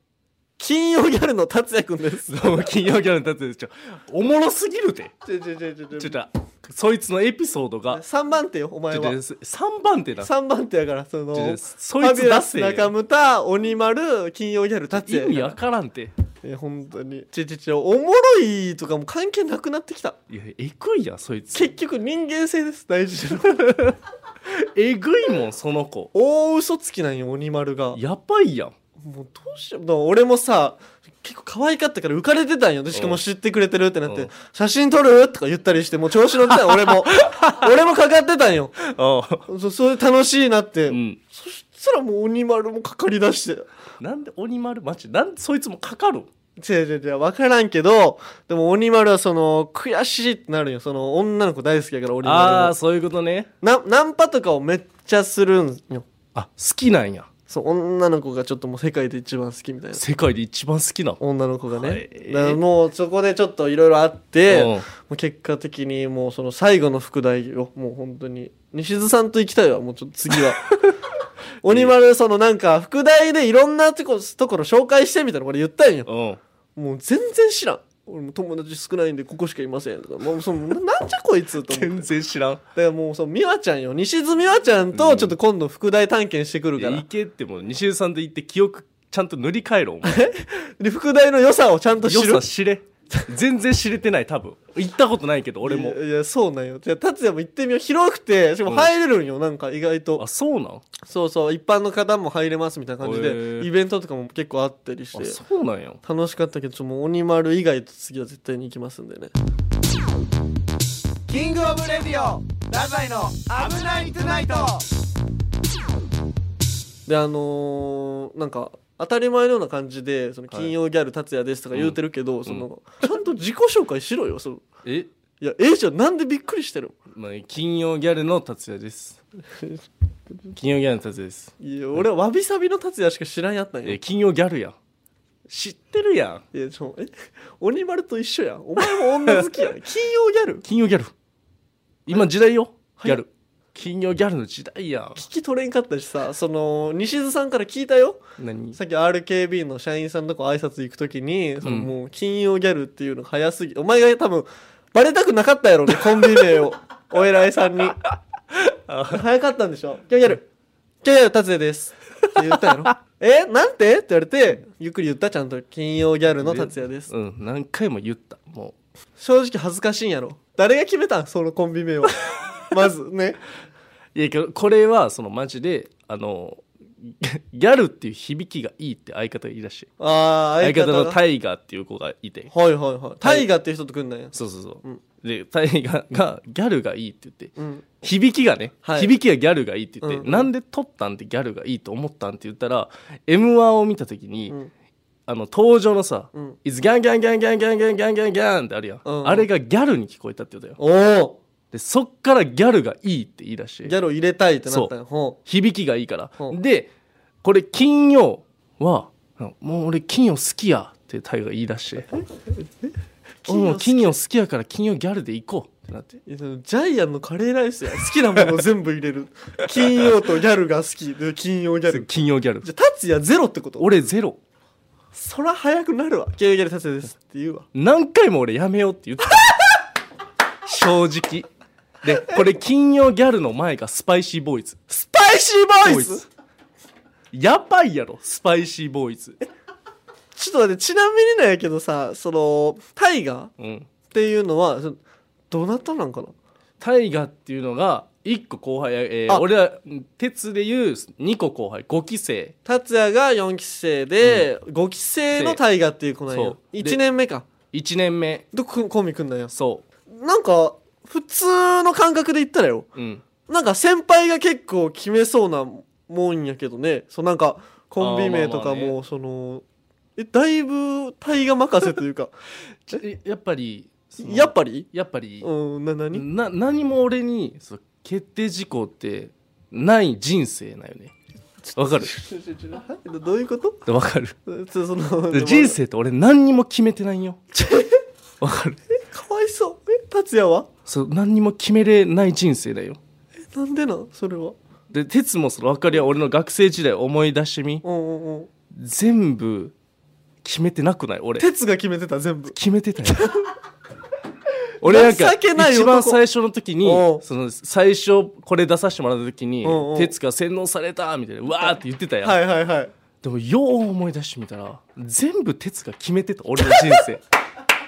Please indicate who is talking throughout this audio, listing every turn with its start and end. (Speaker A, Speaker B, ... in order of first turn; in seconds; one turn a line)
Speaker A: 0.6-2.4
Speaker B: 2.3-5.1
Speaker A: 5.2-6.2
Speaker B: 6.0-8.0
Speaker A: 7.9-9.2
Speaker B: 8.9-10.3
Speaker A: 10.2-15.6
Speaker B: 11.3-12.9
Speaker B: 15.0-16.1
Speaker A: 16.4-20.2
Speaker B: 20.3-21.7
Speaker A: 21.5-23.9
Speaker B: 24.5-26.1
Speaker A: 26.1-28.0
Speaker B: 27.9-28.8
Speaker A: 29.0-38.8
Speaker B: 32.9-33.2
Speaker B: 36.5-37.7
Speaker B: 38.8-39.5
Speaker A: 39.5-43.7
Speaker B: 40.9-41.2
Speaker B: 44.0-46.3
Speaker A: 46.6-52.8
Speaker B: 52.2-53.5
Speaker A: 53.6-56.1
Speaker B: 56.4-57.3
Speaker A: 57.5-60.0
Speaker B: 60.0-61.2
Speaker A: 61.2-70.7
Speaker B: 61.8-62.6
Speaker B: 64.5-64.9
Speaker B: 70.3-70.9
Speaker A: 71.6-76.1
Speaker B: 71.7-71.9
Speaker B: 76.1-76.4
Speaker A: 76.8-82.1
Speaker B: 81.6-82.6
Speaker A: 82.7-87.0
Speaker B: 84.9-85.4
Speaker B: 86.8-90.2
Speaker A: 90.0-92.5
Speaker B: 92.0-96.0
Speaker A: 95.6-100.2
Speaker B: 100.2-100.8
Speaker A: 101.0-105.4
Speaker B: 103.0-103.7
Speaker B: 105.1-106.0
Speaker A: 106.0-109.3
Speaker C: 111.3-114.7
Speaker A: 117.1-124.6
Speaker B: 121.7-122.7
Speaker B: 124.8-125.1
Speaker A: 125.4-127.0
Speaker B: 127.1-129.2
Speaker B: 130.5-131.5
Speaker A: 131.6-134.0
Speaker B: 133.8-134.8
Speaker B: 135.5-136.4
Speaker A: 136.5-140.7
Speaker B: 138.8-139.6
Speaker B: 140.6-141.1
Speaker B: 142.1-145.2
Speaker A: 143.0-143.2
Speaker A: 145.2-148.2
Speaker B: 148.4-148.8
Speaker A: 148.7-158.0
Speaker B: 151.6-151.9
Speaker B: 158.5-159.2
Speaker A: 159.1-160.5
Speaker A: 161.0-167.1
Speaker B: 166.4-168.8
Speaker A: 169.2-173.4
Speaker B: 174.2-179.9
Speaker A: 180.0-181.2
Speaker B: 180.6-182.5
Speaker A: 182.5-185.0
Speaker B: 183.2-183.5
Speaker B: 184.3-194.6
Speaker A: 187.6-187.9
Speaker A: 188.8-189.1
Speaker A: 190.0-190.5
Speaker B: 195.3-200.8
Speaker A: 199.1-199.5
Speaker A: 200.8-201.4
Speaker B: 201.7-203.9
Speaker A: 203.8-205.4
Speaker B: 204.7-204.9
Speaker B: 205.5-206.9
Speaker B: 207.4-212.1
Speaker A: 213.4-214.2
Speaker B: 213.5-216.2
Speaker A: 216.2-222.1
Speaker B: 221.9-222.7
Speaker A: 222.6-223.9
Speaker B: 223.8-224.4
Speaker A: 225.1-227.7
Speaker B: 227.7-229.8
Speaker B: 230.7-231.5
Speaker B: 232.0-234.8
Speaker A: 234.9-236.2
Speaker B: 235.8-236.2
Speaker B: 237.3-239.4
Speaker A: 240.4-243.5
Speaker B: 243.6-243.9
Speaker A: 244.1-245.0
Speaker A: 245.5-246.3
Speaker B: 246.8-252.6
Speaker A: 252.7-257.5
Speaker B: 254.2-254.5
Speaker B: 255.3-255.6
Speaker B: 256.3-257.0
Speaker B: 257.7-258.5
Speaker A: 258.5-259.5
Speaker B: 259.5-259.8
Speaker A: 260.1-262.9
Speaker B: 262.9-263.2
Speaker A: 263.5-269.6
Speaker B: 268.0-269.0
Speaker A: 270.2-272.3
Speaker B: 272.9-275.5
Speaker A: 274.2-274.9
Speaker A: 275.4-276.3
Speaker B: 276.1-281.1
Speaker A: 281.7-283.9
Speaker B: 281.8-282.1
Speaker B: 283.9-284.4
Speaker A: 284.5-285.8
Speaker B: 285.3-287.5
Speaker A: 287.6-288.0
Speaker B: 288.4-288.8
Speaker A: 289.0-290.7
Speaker B: 290.9-293.0
Speaker A: 293.5-294.6
Speaker B: 294.9-297.8
Speaker A: 297.8-298.5
Speaker B: 298.7-299.7
Speaker B: 300.4-301.5
Speaker A: 301.4-303.5
Speaker B: 302.5-303.3
Speaker A: 304.8-306.2
Speaker B: 304.8-312.4
Speaker A: 306.8-307.2
Speaker A: 309.6-310.1
Speaker A: 312.2-312.9
Speaker B: 313.2-317.2